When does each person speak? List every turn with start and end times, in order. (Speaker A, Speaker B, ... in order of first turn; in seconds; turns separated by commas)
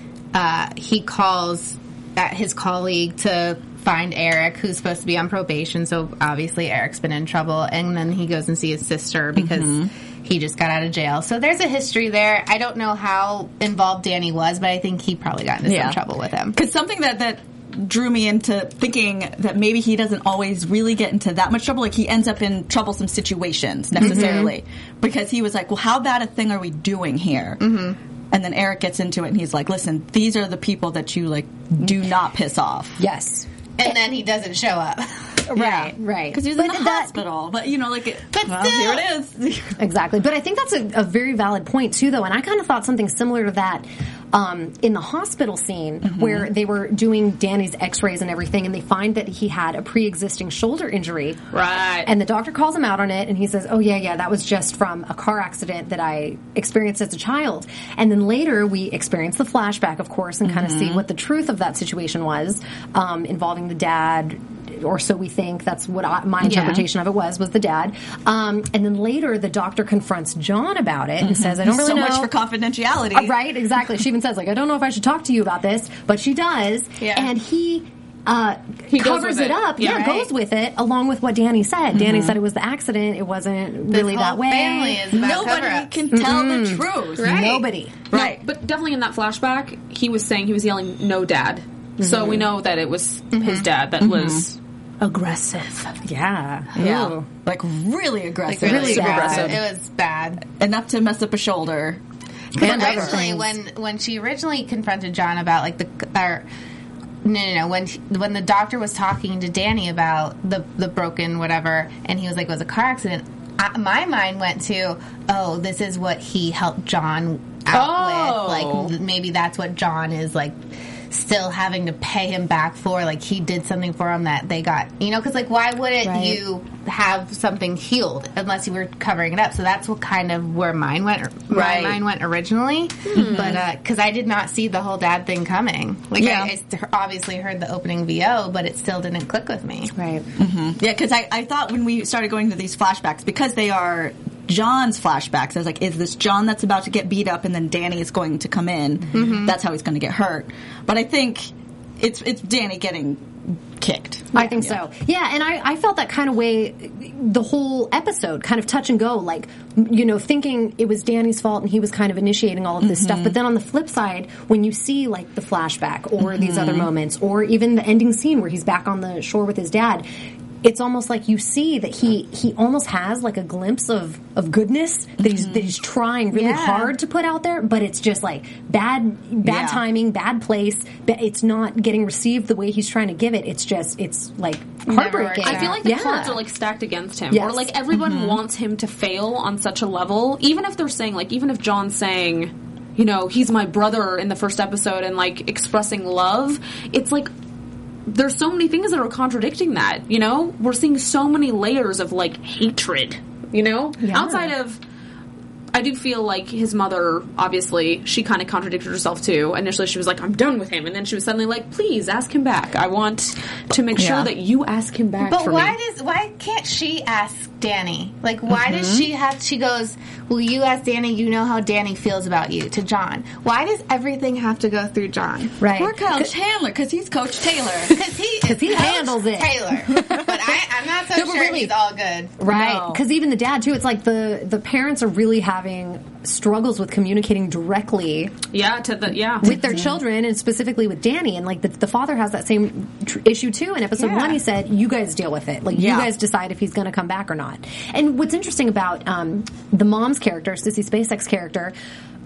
Speaker A: 0.3-16.6, Speaker B: 9.4-9.9, Speaker B: 15.7-16.0, Speaker B: 16.6-27.6, Speaker C: 24.0-24.5, Speaker A: 24.0-24.5, Speaker A: 27.6-28.0, Speaker B: 28.3-33.0, Speaker C: 33.0-34.0, Speaker A: 33.8-35.3, Speaker C: 35.5-37.2, Speaker B: 35.5-39.8, Speaker A: 38.3-39.1, Speaker C: 39.8-51.4, Speaker B: 46.0-46.5, Speaker D: 51.5-52.1, Speaker C: 52.0-72.3, Speaker B: 60.5-61.0, Speaker B: 66.4-66.8, Speaker B: 71.2-73.3, Speaker C: 73.1-85.4, Speaker A: 77.0-77.3, Speaker D: 78.9-80.1, Speaker A: 79.8-80.2, Speaker B: 81.9-82.4, Speaker A: 83.9-86.0, Speaker B: 85.2-87.6, Speaker C: 86.1-88.0, Speaker A: 87.2-87.6, Speaker B: 88.1-88.4, Speaker D: 88.1-96.0, Speaker C: 92.0-92.4, Speaker A: 93.3-93.7, Speaker B: 94.0-94.4, Speaker C: 96.0-97.2, Speaker B: 96.8-99.6, Speaker A: 98.5-100.4, Speaker C: 98.6-99.6, Speaker D: 98.9-99.5, Speaker B: 100.6-102.0, Speaker A: 102.5-106.5, Speaker C: 102.6-103.5, Speaker B: 102.6-103.2, Speaker A: 107.2-120.6, Speaker D: 117.7-118.9, Speaker A: 121.1-139.9, Speaker C: 126.0-126.4, Speaker D: 131.5-132.0, Speaker D: 133.1-133.6, Speaker B: 133.2-133.6, Speaker B: 136.2-136.5, Speaker C: 139.9-140.3, Speaker B: 140.4-154.8, Speaker A: 149.1-149.5, Speaker C: 154.3-170.1, Speaker B: 162.8-163.3, Speaker B: 166.2-166.9, Speaker C: 170.6-186.4, Speaker B: 175.2-175.7, Speaker A: 176.3-176.9, Speaker B: 179.4-179.8, Speaker A: 184.9-185.8, Speaker D: 185.4-197.3, Speaker C: 187.3-187.7, Speaker B: 187.9-188.4, Speaker D: 198.1-204.8, Speaker C: 204.0-204.5, Speaker D: 205.7-215.8, Speaker B: 214.0-214.3, Speaker A: 215.2-225.6, Speaker B: 218.5-219.1, Speaker C: 225.6-226.3, Speaker B: 225.7-228.0, Speaker A: 227.9-232.4, Speaker C: 228.4-230.5, Speaker C: 231.1-231.7, Speaker C: 232.4-238.3, Speaker B: 232.5-233.0, Speaker D: 238.5-239.6, Speaker C: 239.4-251.7, Speaker B: 239.4-240.0, Speaker B: 245.7-246.1